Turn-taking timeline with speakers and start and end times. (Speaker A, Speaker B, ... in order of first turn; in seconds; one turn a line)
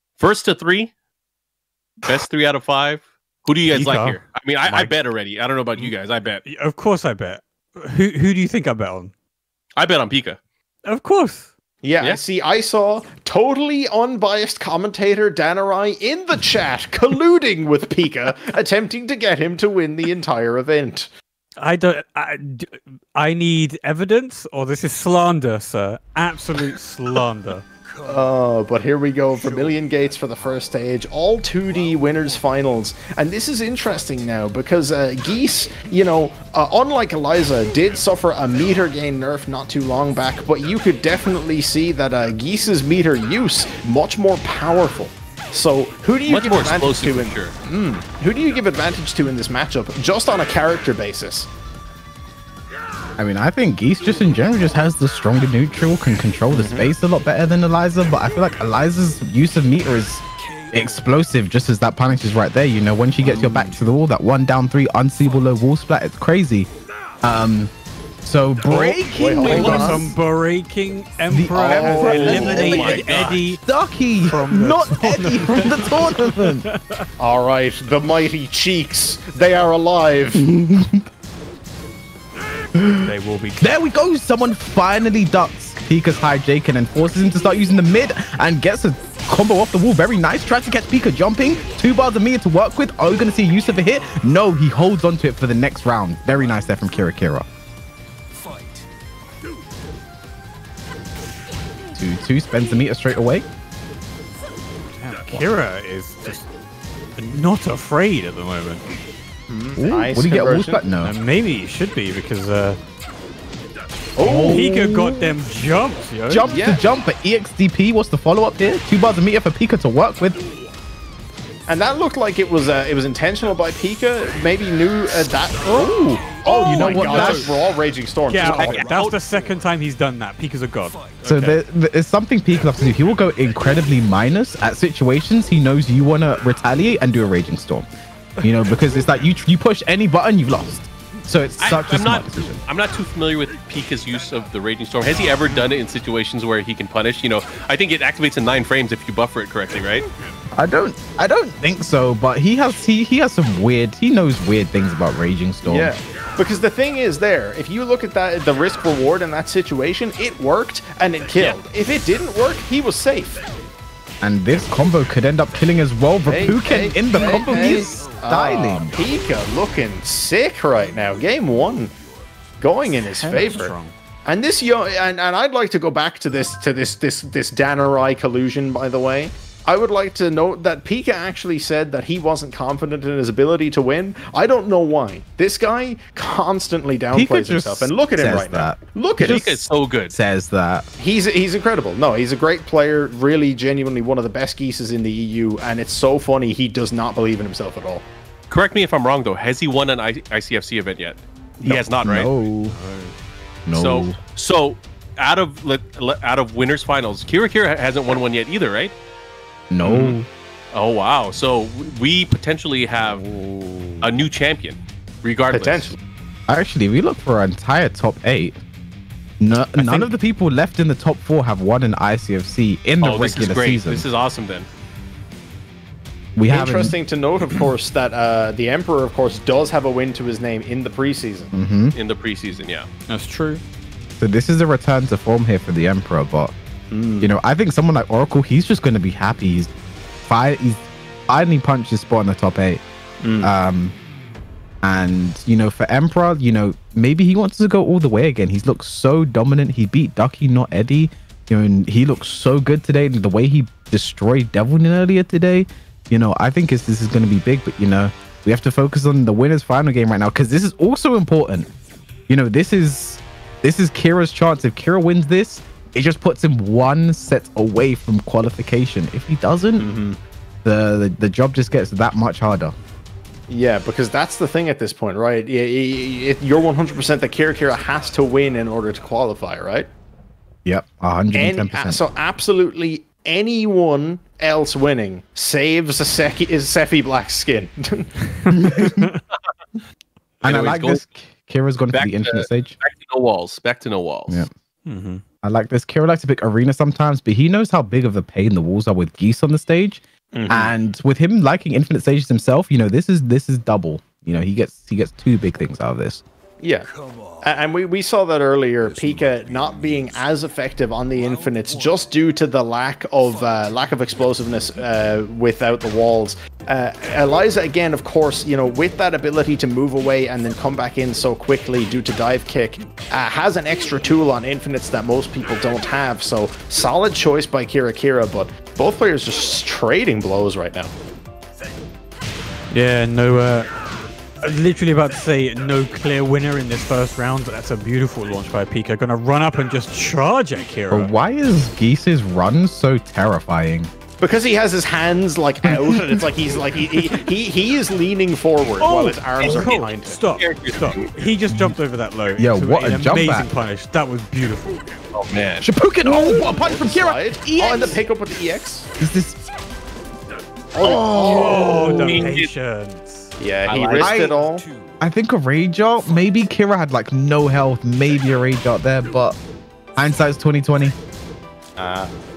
Speaker A: 0.2-0.9
Speaker A: 2.0-6.5
Speaker B: 3.7-5.0
Speaker B: 6.5-9.1
Speaker A: 9.8-10.4
Speaker B: 10.8-11.5
Speaker C: 11.8-21.1
Speaker B: 21.6-27.7
Speaker C: 28.1-51.5
Speaker A: 46.3-47.5
Speaker D: 53.2-66.7
Speaker C: 56.5-56.9
Speaker C: 63.2-63.8
Speaker D: 67.2-67.7
Speaker D: 68.2-70.1
Speaker C: 68.7-70.2
Speaker B: 69.4-73.6
Speaker D: 71.3-76.7
Speaker C: 71.5-73.0
Speaker A: 72.2-73.4
Speaker B: 74.3-77.1
Speaker C: 77.2-80.5
Speaker D: 80.3-81.0
Speaker D: 82.8-97.5
Speaker B: 83.0-83.8
Speaker D: 102.0-103.5
Speaker B: 104.9-106.5
Speaker B: 107.2-108.8
Speaker C: 109.5-110.8
Speaker D: 109.8-111.1
Speaker B: 111.0-112.8
Speaker C: 114.2-114.6
Speaker D: 114.2-115.3
Speaker B: 114.5-116.5
Speaker D: 116.3-120.4
Speaker C: 116.5-116.9
Speaker C: 121.7-128.9
Speaker D: 126.3-127.6
Speaker B: 126.6-127.5
Speaker B: 128.3-131.6
Speaker A: 128.4-129.2
Speaker D: 131.2-137.9
Speaker D: 138.4-142.6
Speaker A: 141.6-150.1
Speaker D: 150.6-155.9
Speaker C: 155.6-163.4
Speaker D: 164.2-168.9
Speaker C: 166.3-171.9
Speaker B: 167.2-167.9
Speaker C: 172.6-173.8
Speaker B: 173.2-173.9
Speaker C: 174.3-189.4
Speaker D: 187.1-190.9
Speaker A: 189.2-190.1
Speaker C: 191.0-198.1
Speaker A: 198.5-202.3
Speaker D: 201.7-202.8
Speaker B: 202.6-203.2
Speaker D: 203.7-204.2
Speaker A: 203.7-208.9
Speaker D: 209.7-210.3
Speaker A: 209.8-210.2
Speaker A: 210.7-213.2
Speaker B: 213.2-214.0
Speaker A: 214.0-215.9
Speaker C: 215.5-216.0
Speaker D: 216.5-218.6
Speaker D: 219.4-224.1
Speaker B: 219.8-220.1
Speaker A: 223.0-224.7
Speaker D: 226.4-226.9
Speaker C: 226.5-231.5
Speaker D: 231.5-231.9
Speaker A: 231.9-232.9
Speaker B: 233.1-233.6
Speaker D: 234.2-236.5
Speaker C: 236.9-237.3
Speaker D: 237.2-239.7
Speaker D: 240.3-242.8
Speaker C: 243.2-243.5
Speaker D: 243.4-243.9
Speaker D: 244.8-261.7
Speaker D: 262.3-269.9
Speaker C: 269.8-270.2
Speaker D: 270.6-272.8
Speaker C: 273.5-279.9
Speaker D: 280.6-282.0
Speaker C: 281.3-288.1
Speaker B: 288.4-289.2
Speaker D: 288.6-289.1
Speaker A: 290.4-291.0
Speaker D: 290.4-292.8
Speaker A: 291.9-294.5
Speaker B: 294.9-295.2
Speaker D: 295.4-306.2
Speaker C: 300.3-300.8
Speaker C: 306.6-330.9
Speaker B: 332.7-333.7
Speaker B: 334.4-341.1
Speaker D: 340.9-343.9
Speaker C: 344.2-350.2
Speaker D: 345.6-346.1
Speaker B: 348.8-354.8
Speaker A: 350.4-351.1
Speaker D: 351.5-351.8
Speaker D: 352.4-353.5
Speaker A: 355.1-355.7
Speaker D: 355.6-358.0
Speaker C: 356.1-358.9
Speaker D: 359.0-359.4
Speaker C: 360.7-362.2
Speaker D: 360.9-362.1
Speaker B: 361.3-363.3
Speaker A: 361.7-362.5
Speaker C: 363.4-364.6
Speaker A: 363.7-364.2
Speaker D: 364.0-364.4
Speaker B: 364.5-364.8
Speaker D: 365.0-369.4
Speaker D: 370.0-370.9
Speaker C: 371.8-372.1